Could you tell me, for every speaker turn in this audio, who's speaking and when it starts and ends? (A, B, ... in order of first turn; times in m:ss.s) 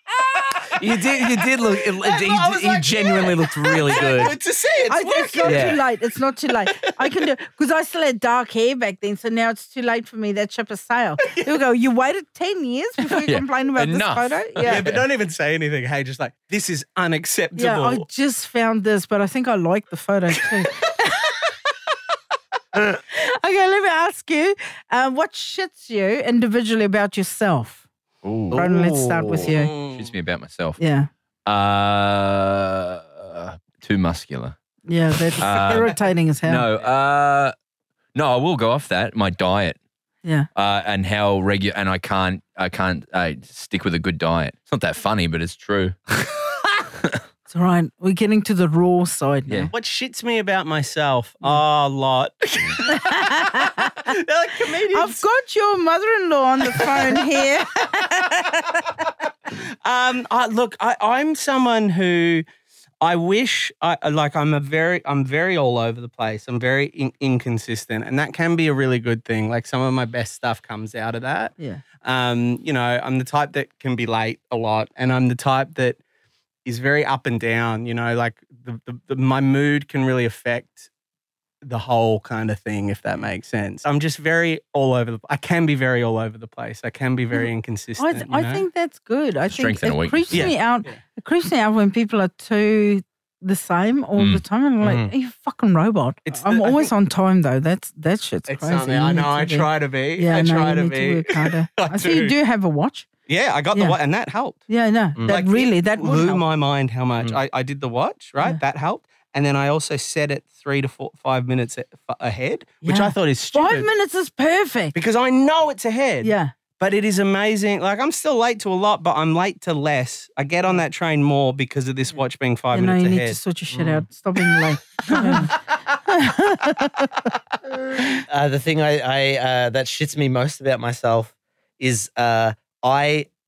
0:00.8-0:04.4 A
0:02.0-0:05.8 B
0:04.9-0:14.8 C
0:05.4-0:05.8 A
0:11.3-0:11.6 B
0:13.0-0:15.0 D
0:14.6-0:18.0 B
0:17.6-0:21.3 C
0:23.1-0:27.8 C
0:28.2-0:30.8 D
0:28.5-0:29.7 C
0:28.6-0:29.2 A
0:29.5-0:30.1 B
0:30.8-0:31.1 C
0:31.5-0:34.6 D
0:34.9-0:36.7 C
0:35.4-0:35.9 D
0:36.4-0:37.5 D
0:38.2-0:39.8 D
0:40.6-0:46.4 D
0:47.5-0:49.7 C
0:49.7-0:55.2 B
0:52.9-0:54.1 C
0:54.9-0:58.9 C
0:56.8-0:57.2 B
0:59.5-1:02.4 B
1:03.0-1:16.0 B
1:16.6-1:20.9 B
1:21.6-1:28.6 B
1:27.3-1:43.1 C
1:29.5-1:30.5 D
1:30.3-1:31.0 B
1:34.2-1:34.4 D
1:34.8-1:35.1 A
1:36.3-1:36.9 B
1:38.5-1:42.3 B
1:43.3-1:44.7 B
1:44.7-1:46.4 C
1:45.2-1:45.4 A
1:45.3-1:53.9 B
1:52.8-1:55.0 C
1:54.9-2:03.4 B
1:56.2-1:56.5 C
2:02.7-2:07.0 C
2:03.7-2:04.0 A
2:05.1-2:05.4 B
2:08.3-2:13.3 A